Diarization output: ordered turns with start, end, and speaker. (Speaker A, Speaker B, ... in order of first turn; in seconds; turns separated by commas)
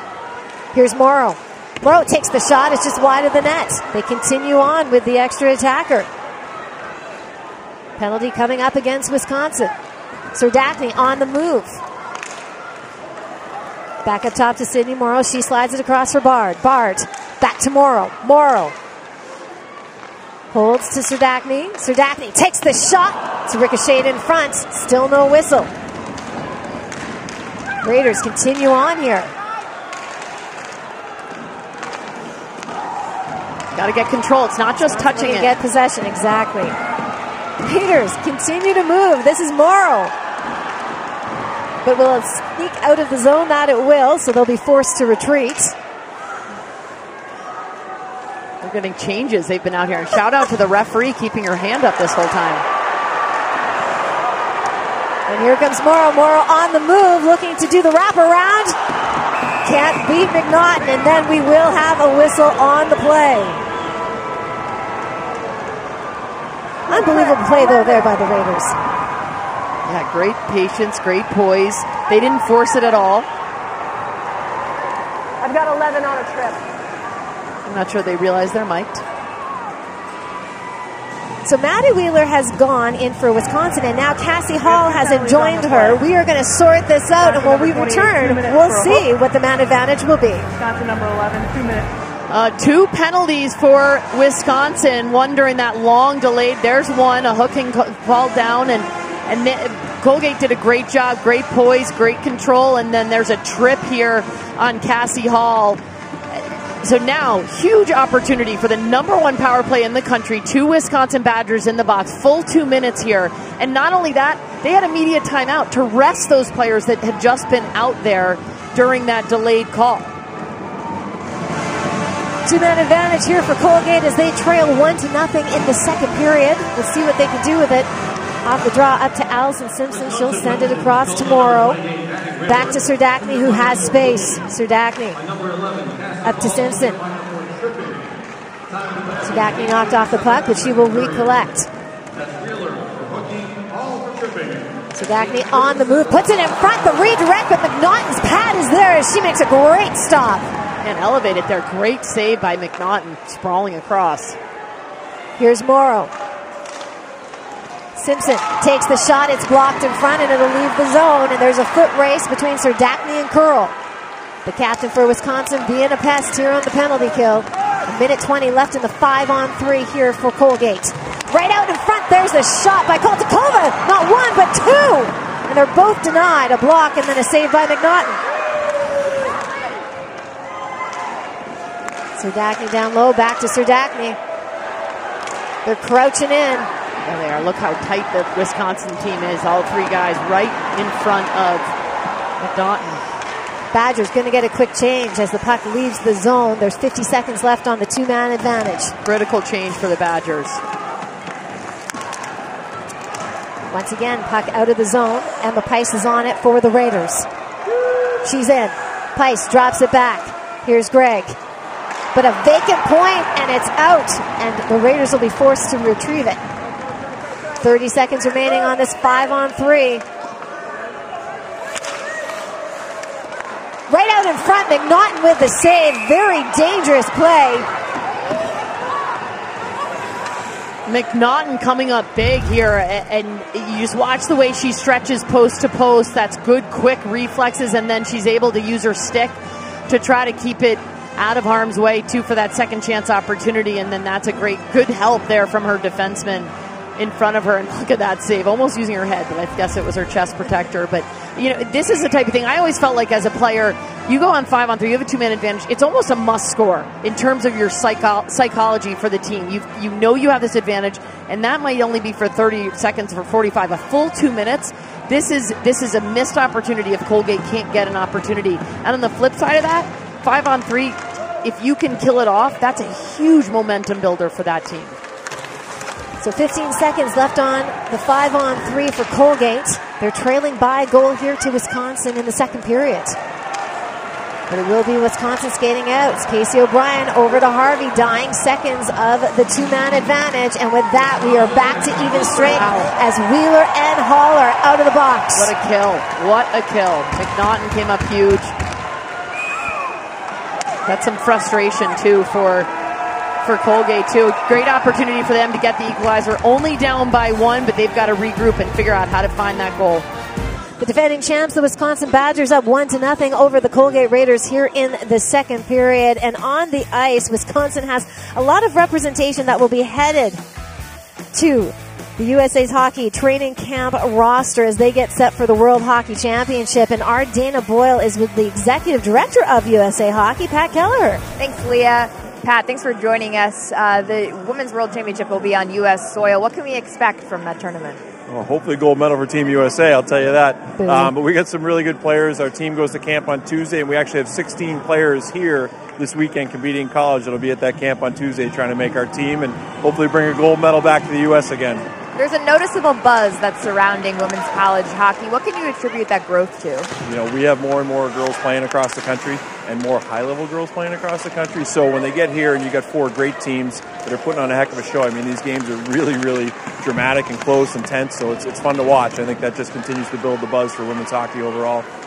Speaker A: 0.7-6.1, Speaker A: 8.0-9.7, Speaker A: 10.3-11.8, Speaker A: 14.0-18.8, Speaker A: 20.5-25.7, Speaker A: 27.8-29.3, Speaker B: 33.8-35.5, Speaker A: 34.7-36.8, Speaker A: 37.6-40.1, Speaker A: 41.8-45.8, Speaker B: 48.6-52.6, Speaker A: 55.3-58.8, Speaker A: 59.6-63.6, Speaker A: 66.9-68.8, Speaker C: 66.9-68.1, Speaker B: 69.9-73.3, Speaker C: 75.4-76.6, Speaker B: 77.7-79.0, Speaker A: 81.5-90.5, Speaker C: 84.6-86.0, Speaker C: 87.2-89.1, Speaker C: 90.6-91.9, Speaker B: 92.3-120.2, Speaker A: 122.5-127.9, Speaker A: 128.4-131.8, Speaker A: 132.4-135.2, Speaker A: 136.2-137.0, Speaker A: 139.2-141.7, Speaker D: 142.8-143.6, Speaker A: 144.9-150.5, Speaker B: 150.8-154.4, Speaker A: 155.4-156.1, Speaker A: 157.9-163.8, Speaker A: 164.4-178.2, Speaker A: 182.2-184.2, Speaker A: 185.7-186.7, Speaker B: 187.0-191.7, Speaker B: 192.4-193.0, Speaker A: 193.7-199.0, Speaker B: 199.1-200.6, Speaker A: 203.7-207.3, Speaker A: 208.2-211.4, Speaker A: 212.2-216.4, Speaker A: 217.6-220.0, Speaker A: 223.9-227.7, Speaker B: 230.9-239.3, Speaker B: 239.9-275.0, Speaker A: 276.2-283.2, Speaker A: 284.5-295.5, Speaker B: 292.2-292.9, Speaker B: 295.3-298.6, Speaker B: 300.9-302.7, Speaker B: 303.4-310.1, Speaker A: 310.8-320.4, Speaker A: 321.3-331.2, Speaker E: 331.4-338.0, Speaker D: 338.3-351.9, Speaker A: 340.8-341.1, Speaker E: 352.1-356.9, Speaker D: 357.1-371.9